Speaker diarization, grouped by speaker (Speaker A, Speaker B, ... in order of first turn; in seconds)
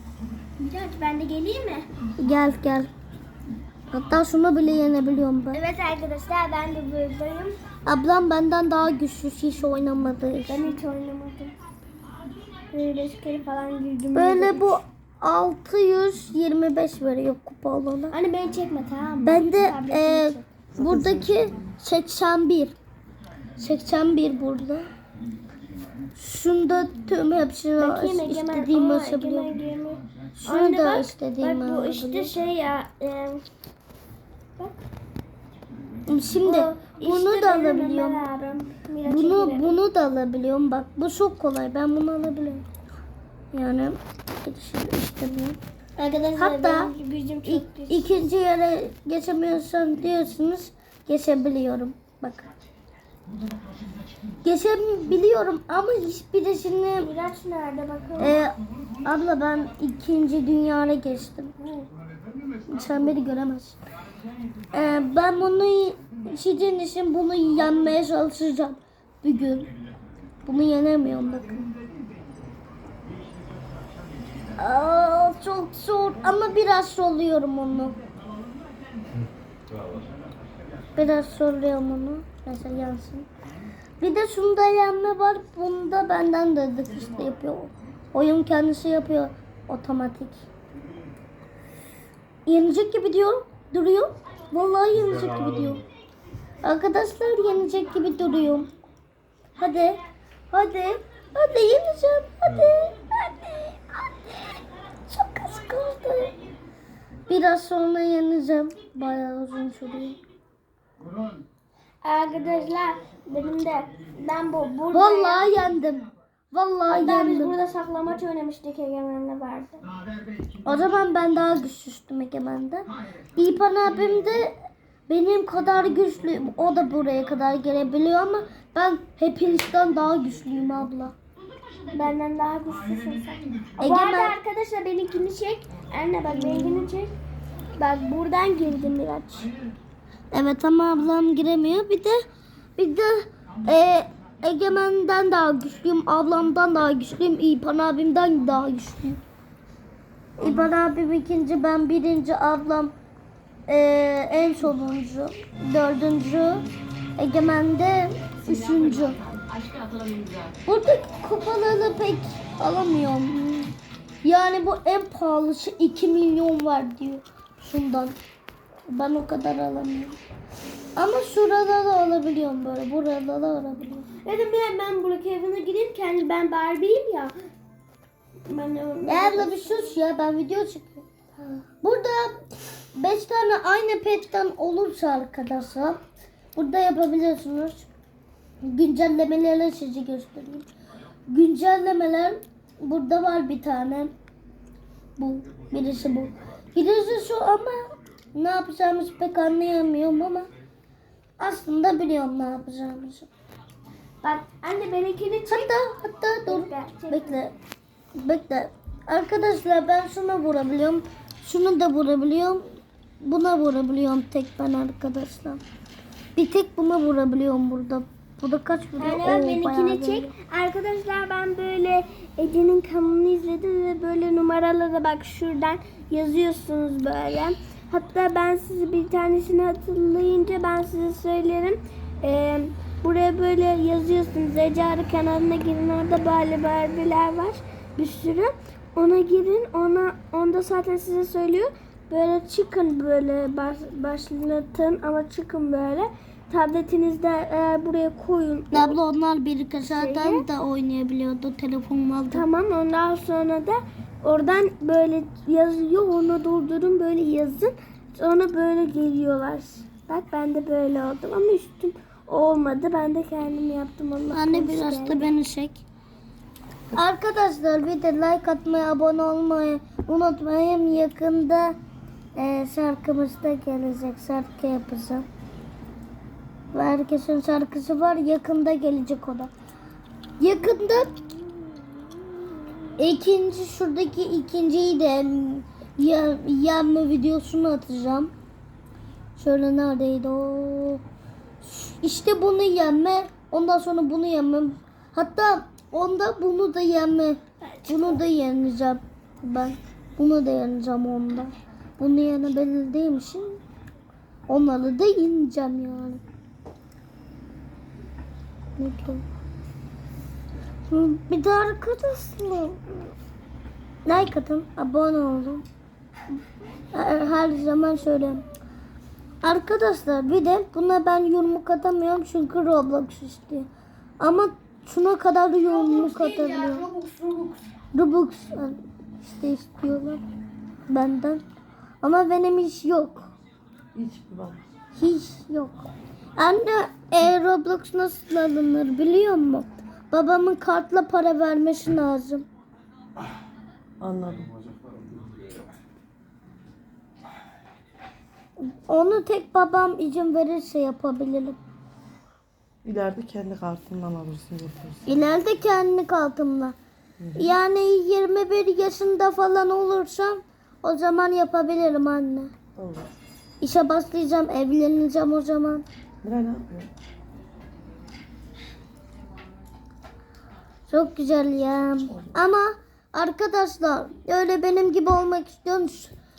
Speaker A: 0.6-1.9, 5.5-7.6, 10.4-11.5, 12.7-14.7, 18.1-20.5, 27.8-33.4, 36.4-39.8, 46.0-48.2, 57.0-58.4, 112.0-115.5, 116.9-119.8, 131.9-137.1, 137.8-139.5, 174.2-177.3, 178.4-179.9, 204.2-205.7, 206.4-207.4, 219.0-249.0, 249.9-250.4, 252.3-265.3, 297.8-298.1
Speaker B: 2.2-2.9, 3.9-5.6, 7.8-10.7, 14.1-18.1, 19.2-22.8, 23.6-24.9, 26.1-29.5, 30.4-32.3, 36.1-38.2, 39.0-42.6, 43.5-45.6, 46.4-46.9, 47.5-52.5, 54.4-57.1, 58.2-61.5, 62.7-63.8, 64.7-69.7, 70.4-71.6, 74.6-78.0, 81.0-83.3, 84.0-90.4, 92.5-95.8, 96.6-98.7, 99.6-100.0, 100.5-104.6, 105.1-106.3, 107.3-110.2, 114.9-117.5, 120.6-124.5, 125.1-131.1, 133.8-134.3, 136.3-136.8, 140.3-142.2, 142.8-149.2, 150.4-152.9, 153.7-156.6, 157.2-159.2, 160.7-163.7, 164.2-168.1, 168.9-170.2, 170.9-174.1, 179.1-181.0, 181.8-182.4, 182.9-186.0, 186.5-187.8, 188.6-190.7, 191.3-194.1, 195.2-197.8, 198.3-200.5, 201.4-203.3, 205.5-207.5, 208.2-212.7, 213.2-215.6, 216.3-220.3, 248.7-252.4, 264.3-265.8, 266.9-271.8, 272.4-275.3, 276.7-279.5, 280.4-281.1, 283.0-288.3, 289.4-291.0, 291.6-303.6, 304.5-306.2, 308.8-309.2, 310.9-312.8, 314.1-315.6, 316.9-318.4, 319.4-323.7, 324.2-326.9, 327.9-330.2, 330.9-331.4, 332.0-333.3, 334.9-342.4, 348.7-351.6, 355.1-356.8, 357.4-362.5, 363.6-365.8, 370.9-376.1
Speaker C: 333.9-334.6, 344.0-345.0, 352.8-355.0, 357.2-357.5, 362.8-363.1, 366.2-366.9